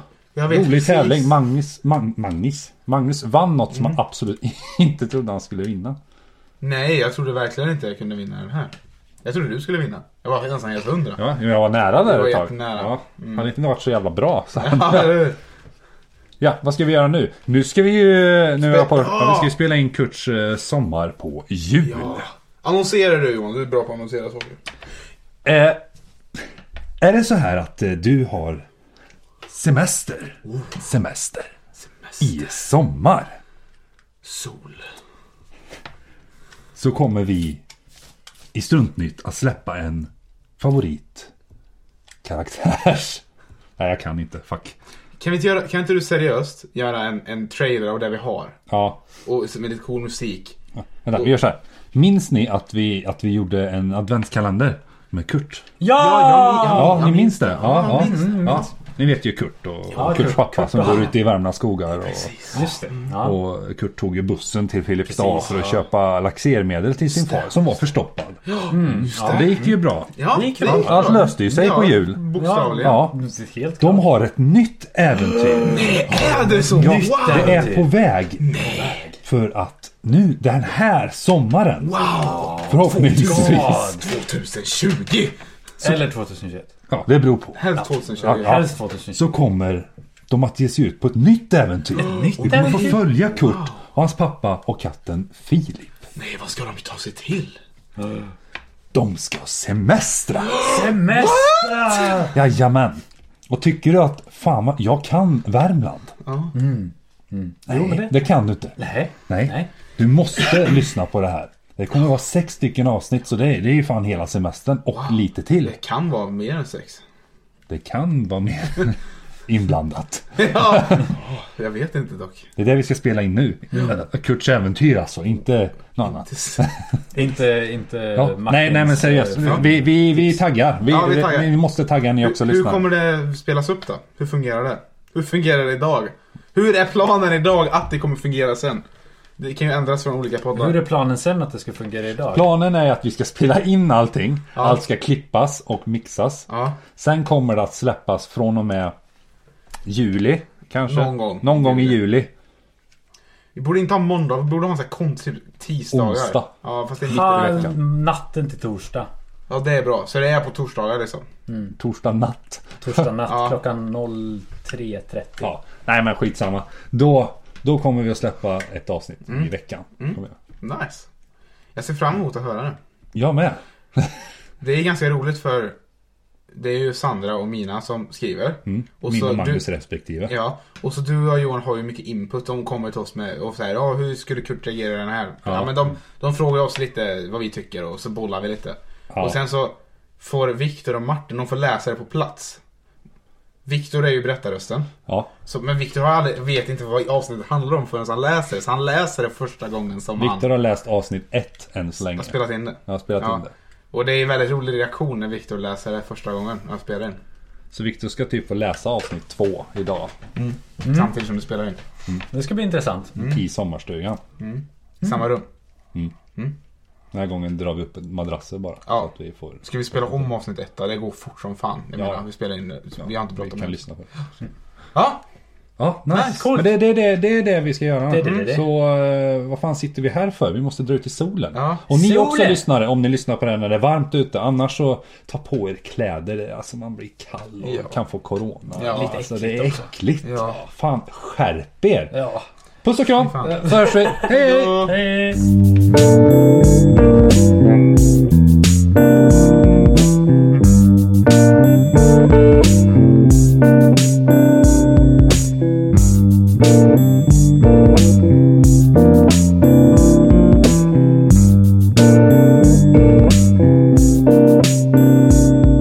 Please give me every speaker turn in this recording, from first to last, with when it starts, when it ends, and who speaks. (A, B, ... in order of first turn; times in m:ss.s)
0:00.3-0:01.3 A
0:00.4-0:06.0 B
0:06.6-0:11.2 A
0:11.2-0:15.3 B
0:12.0-0:13.4 A
0:14.6-0:15.4 A
0:16.4-0:22.3 B
0:18.6-0:19.5 A
0:21.9-0:24.6 A
0:25.4-0:25.8 B
0:27.0-0:28.6 B
0:29.5-0:31.5 B
0:32.2-0:33.4 B
0:34.2-0:34.8 A
0:36.7-0:37.6 B
0:38.5-0:41.3 B
0:42.2-0:43.2 B
0:43.8-0:44.8 B
0:45.2-0:48.6 A
0:48.7-0:49.0 B
0:49.2-0:50.6 A
0:51.0-0:55.7 B
0:55.8-0:57.1 C
0:55.9-0:58.6 A
0:56.7-1:02.3 B
0:57.7-0:58.7 C
0:59.9-1:01.1 C
1:02.0-1:03.0 A
1:02.5-1:03.4 C
1:03.2-1:12.2 B
1:05.1-1:05.8 C
1:07.1-1:07.5 A
1:08.4-1:13.0 A
1:08.7-1:09.6 C
1:10.3-1:11.3 C
1:12.3-1:14.1 C
1:12.8-1:13.2 B
1:13.8-1:18.5 B
1:15.6-1:17.8 A
1:16.0-1:17.9 C
1:18.4-1:19.0 A
1:18.6-1:19.2 C
1:19.2-1:23.9 B
1:21.8-1:25.4 A
1:23.0-1:24.1 C
1:25.8-1:26.7 C
1:26.9-1:27.6 B
1:27.5-1:28.6 A
1:27.8-1:29.3 C
1:28.2-1:36.0 B
1:32.0-1:33.0 C
1:32.0-1:33.7 A
1:36.1-1:37.6 A
1:38.9-1:40.8 B
1:40.6-1:42.2 A
1:40.7-1:42.3 C
1:42.3-1:46.1 B
1:46.2-1:46.5 A
1:46.5-1:48.2 C
1:47.7-1:48.8 B
1:48.8-1:49.7 C
1:49.3-1:55.8 B
1:55.0-1:57.0 A
1:57.7-2:01.1 B
2:00.4-2:02.5 A
2:02.6-2:06.7 B
2:06.0-2:06.7 A
2:07.1-2:09.7 C
2:08.1-2:12.9 B
2:09.4-2:09.7 A
2:10.9-2:11.5 A
2:12.2-2:18.8 A
2:19.4-2:20.8 A
2:20.5-2:22.5 C
2:22.3-2:28.9 B
2:24.5-2:24.8 A
2:26.5-2:26.8 A
2:29.8-2:32.3 B
2:30.9-2:32.0 A
2:33.5-2:37.7 A
2:35.9-2:36.5 B
2:37.1-2:37.7 B
2:37.1-2:39.1 C
2:39.5-2:41.2 A
2:41.5-2:41.8 C
2:41.8-2:43.0 B
2:42.8-2:45.5 C
2:43.3-2:43.6 A
2:45.4-2:50.3 B
2:49.3-2:51.1 A
2:51.7-2:52.8 A
2:53.1-2:54.2 B
2:54.6-2:55.8 A
2:56.5-2:59.6 A
2:58.6-3:00.3 B
3:00.3-3:12.6 A
3:05.4-3:05.9 B
3:09.1-3:09.4 B
3:13.6-3:14.9 A
3:15.4-3:20.5 A
3:20.2-3:22.3 B
3:22.2-3:27.2 A
3:22.9-3:23.5 B
3:27.7-3:30.1 B
3:30.4-3:31.8 A
3:30.8-3:31.1 C
3:32.3-3:33.1 C
3:33.2-3:33.4 A
3:33.2-3:34.2 B
3:34.4-3:35.4 A
3:37.1-3:40.2 B
3:38.8-3:39.1 A
3:39.6-3:43.8 A
3:43.4-3:44.1 B
3:44.9-3:45.2 A
3:45.8-4:02.1 B
3:46.1-3:46.5 A
3:46.2-3:46.7 C
3:48.1-3:48.6 C
3:51.5-3:51.8 A
3:51.9-3:52.6 C
3:57.6-3:58.0 A
3:58.8-3:59.2 A
3:58.8-3:59.9 C
4:00.2-4:00.6 A
4:02.1-4:02.4 C
4:02.8-4:04.9 B
4:03.1-4:04.9 A
4:03.4-4:05.4 C